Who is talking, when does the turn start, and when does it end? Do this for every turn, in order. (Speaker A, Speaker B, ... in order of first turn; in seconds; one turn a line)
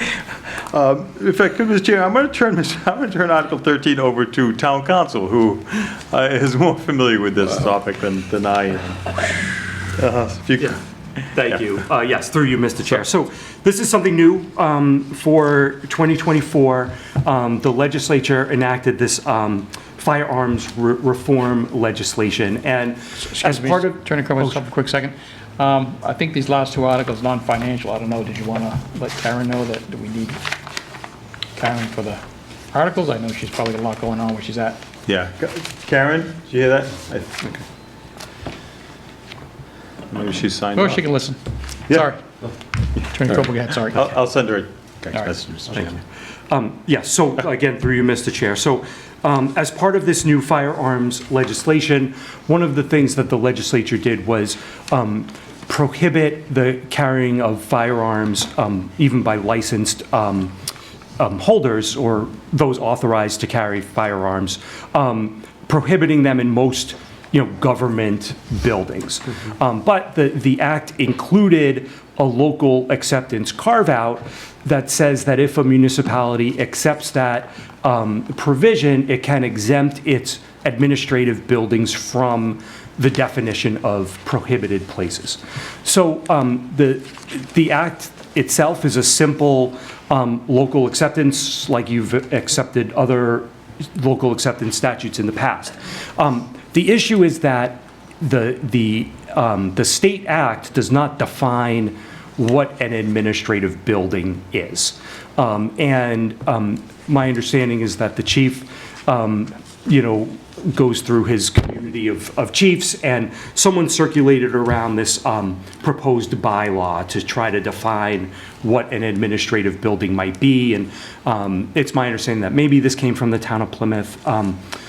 Speaker A: 0.5-9.2
Speaker A: 9.9-10.8
Speaker B: 11.3-24.6
Speaker C: 23.3-30.4
Speaker C: 31.6-34.8
Speaker A: 35.0-37.5
Speaker A: 40.1-41.0
Speaker C: 40.7-42.2
Speaker C: 43.0-44.1
Speaker A: 43.9-46.0
Speaker B: 45.7-60.5
Speaker B: 61.2-124.6